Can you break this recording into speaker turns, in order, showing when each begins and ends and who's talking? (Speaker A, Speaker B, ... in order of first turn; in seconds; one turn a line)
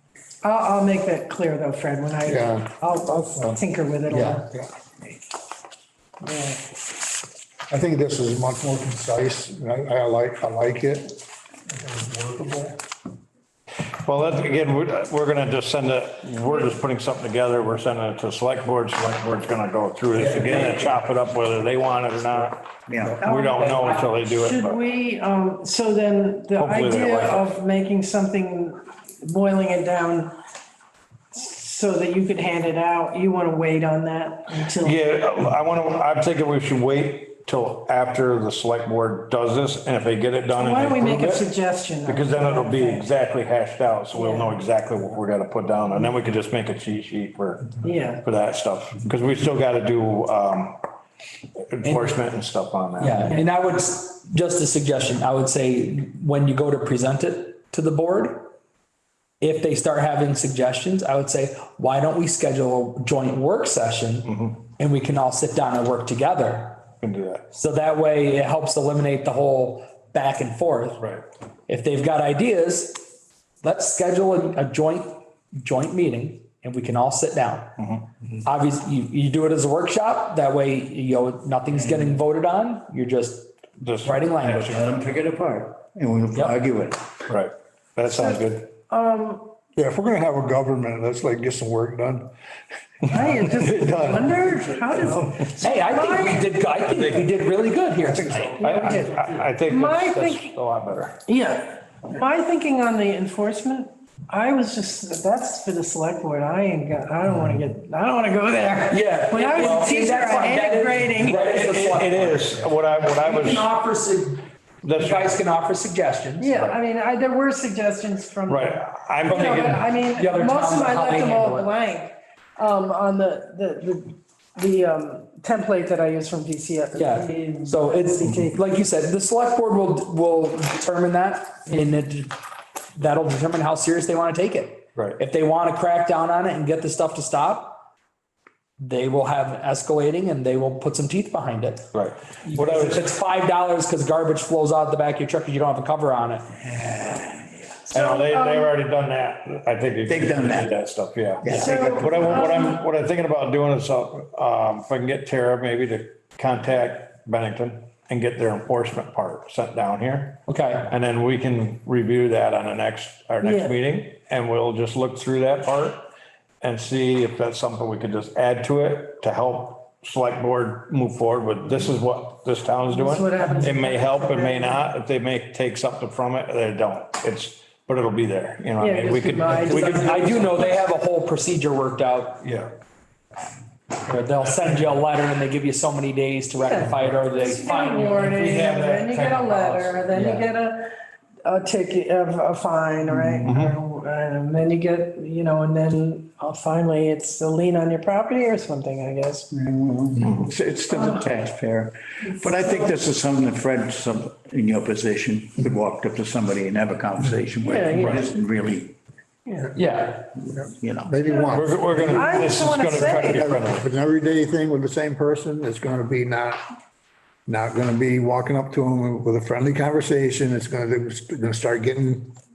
Speaker A: 0.4-4.5
Speaker B: 2.2-2.7
Speaker C: 4.1-4.5
Speaker A: 6.2-6.6
Speaker B: 7.7-12.8
Speaker D: 14.0-24.8
Speaker C: 20.2-20.9
Speaker E: 22.9-23.3
Speaker C: 23.0-24.2
Speaker A: 24.2-30.3
Speaker D: 26.6-27.5
Speaker A: 31.3-35.0
Speaker D: 34.8-41.5
Speaker A: 40.5-43.0
Speaker D: 42.0-50.8
Speaker A: 44.1-44.6
Speaker A: 47.8-48.2
Speaker D: 51.7-53.4
Speaker C: 51.8-52.2
Speaker C: 53.0-58.5
Speaker C: 59.4-66.9
Speaker D: 64.2-64.6
Speaker D: 67.0-67.4
Speaker C: 67.5-71.0
Speaker D: 71.0-71.2
Speaker C: 71.7-77.8
Speaker D: 77.8-78.0
Speaker C: 78.4-84.8
Speaker E: 81.9-82.2
Speaker D: 83.8-84.8
Speaker E: 84.7-87.2
Speaker D: 87.3-88.7
Speaker A: 88.1-89.5
Speaker B: 89.8-92.3
Speaker A: 93.1-96.5
Speaker B: 93.1-94.5
Speaker C: 95.5-98.7
Speaker D: 96.9-97.3
Speaker D: 98.1-101.2
Speaker A: 98.6-100.5
Speaker A: 101.2-111.8
Speaker C: 108.9-116.6
Speaker D: 111.4-113.7
Speaker D: 114.8-115.4
Speaker A: 116.4-128.6
Speaker D: 118.5-119.8
Speaker C: 119.2-121.7
Speaker C: 126.9-132.3
Speaker C: 132.9-137.8
Speaker D: 134.9-135.2
Speaker C: 138.8-141.9
Speaker D: 141.9-143.1
Speaker C: 142.4-146.5
Speaker E: 146.7-147.5
Speaker D: 147.9-166.1
Speaker A: 147.9-148.7
Speaker E: 150.1-150.8
Speaker E: 151.4-152.3
Speaker A: 151.5-152.8
Speaker C: 160.5-160.9
Speaker A: 163.4-163.7
Speaker D: 166.6-179.8
Speaker A: 172.9-174.8
Speaker A: 178.8-180.8
Speaker C: 179.6-182.4
Speaker D: 182.4-182.7
Speaker C: 184.1-188.5
Speaker A: 186.6-199.5
Speaker D: 188.2-190.0
Speaker C: 190.1-190.4
Speaker D: 193.4-193.8
Speaker E: 199.5-208.9
Speaker A: 207.6-208.3
Speaker A: 209.4-209.7
Speaker C: 209.7-210.3
Speaker B: 210.5-212.6
Speaker E: 210.8-211.1
Speaker A: 211.3-213.6
Speaker D: 211.5-213.8
Speaker B: 213.2-216.6
Speaker B: 217.5-222.3